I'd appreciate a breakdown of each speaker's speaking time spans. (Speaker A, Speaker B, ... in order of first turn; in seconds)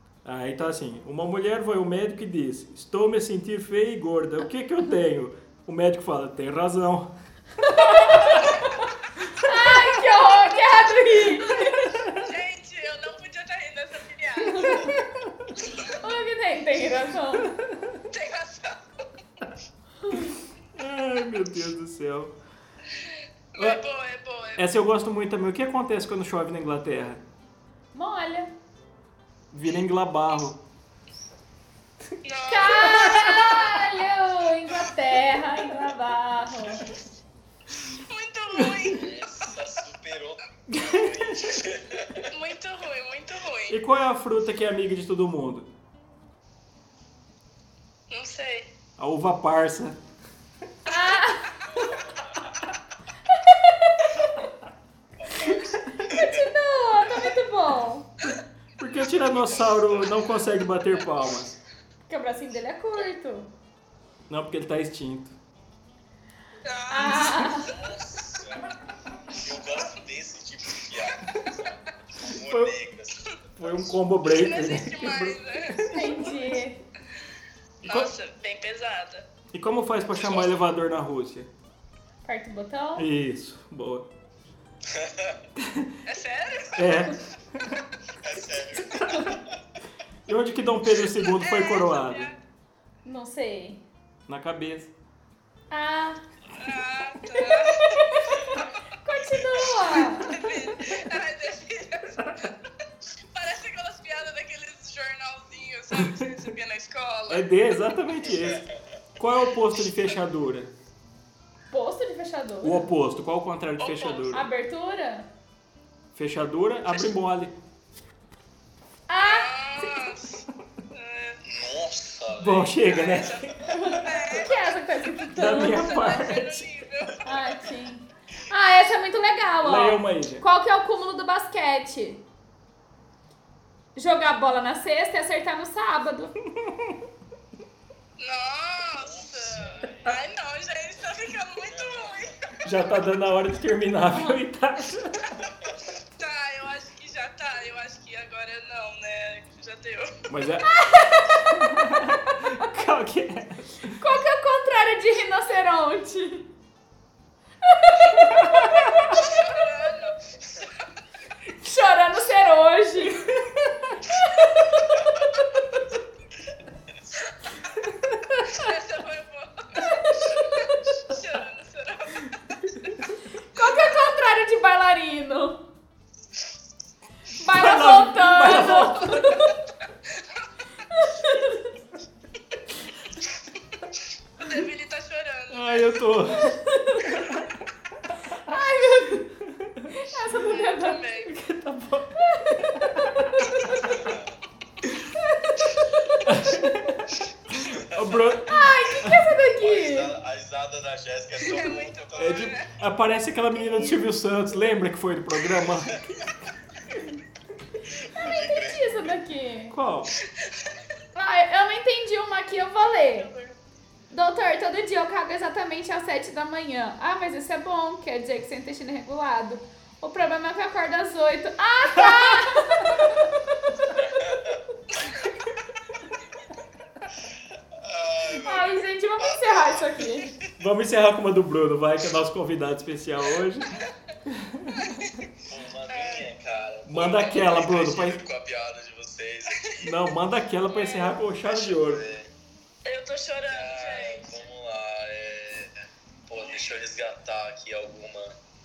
Speaker A: 0.2-7.1, 7.8-8.4, 11.7-12.2, 17.3-18.1, 20.1-22.3, 23.6-23.8, 24.6-27.2, 29.5-30.6, 32.6-33.6, 40.7-41.4, 43.7-45.7, 49.0-50.0, 58.2-61.5, 64.3-65.3, 67.0-67.5, 72.2-72.8, 73.6-76.4, 79.5-81.5, 83.0-84.1, 85.5-85.9, 86.7-87.8, 88.9-89.3, 90.3-92.3, 94.3-94.9, 106.0-106.2, 107.3-108.6, 109.2-110.7, 112.6-114.5, 116.1-117.5, 122.4-124.1, 125.3-126.7, 129.6-130.4, 136.5-137.0, 142.6-145.4, 150.3-153.9, 158.4-159.2, 167.8-168.6, 177.4-179.5, 185.5-187.5, 188.2-189.9, 191.2-193.5, 196.2-199.3, 202.2-206.3, 209.7-210.1, 222.0-222.4, 230.6-235.1, 236.8-238.2, 239.8-242.0
Speaker B: 7.6-8.7, 9.4-11.7, 14.4-15.0, 15.8-17.5, 20.0-20.4, 27.9-28.5, 32.5-36.9, 50.9-51.5, 53.3-54.1, 56.1-58.1, 62.1-63.5, 66.9-67.7, 75.9-76.8, 82.2-83.1, 93.0-93.8, 95.7-96.2, 97.3-100.4, 111.7-112.9, 114.3-115.3, 119.1-120.1, 123.8-125.9, 127.2-132.2, 133.9-136.3, 150.6-151.7, 153.9-156.5, 157.6-159.0, 161.6-164.7, 169.8-170.4, 173.5-175.6, 177.4-179.5, 180.9-181.7, 188.5-189.2, 189.9-191.0, 192.2-194.1, 198.4-200.1, 208.2-209.8, 211.2-213.3, 214.1-223.8, 228.4-230.3
Speaker C: 11.5-14.9, 18.1-18.8, 22.9-24.6, 32.2-33.8, 38.1-39.5, 42.3-43.8, 48.1-48.7, 66.6-67.5, 74.2-75.8, 77.8-79.3, 86.0-86.9, 91.3-92.4, 96.5-98.1, 100.3-102.5, 103.3-107.5, 113.8-114.3, 119.2-121.4, 122.9-124.7, 125.5-127.3, 138.2-142.4, 146.2-150.2, 158.0-158.3, 159.1-160.7, 168.5-170.5, 171.0-172.9, 180.1-180.4, 184.4-186.2, 190.3-191.3, 201.4-202.7, 210.2-210.7, 213.0-213.6, 234.8-235.2, 235.9-236.3, 239.5-239.8, 240.7-241.1, 242.8-244.3
Speaker D: 38.9-42.3, 51.6-52.6, 55.2-56.5, 58.9-60.5, 67.5-73.9, 80.2-80.6, 84.9-85.4, 88.2-89.5, 98.4-98.7, 108.4-108.7, 121.4-124.0, 138.9-140.2, 141.6-142.6, 193.8-194.3, 197.7-198.4, 199.6-202.5, 203.5-204.1, 208.0-209.0, 223.9-225.2, 227.7-230.5, 235.4-239.8, 241.3-242.3, 243.5-248.4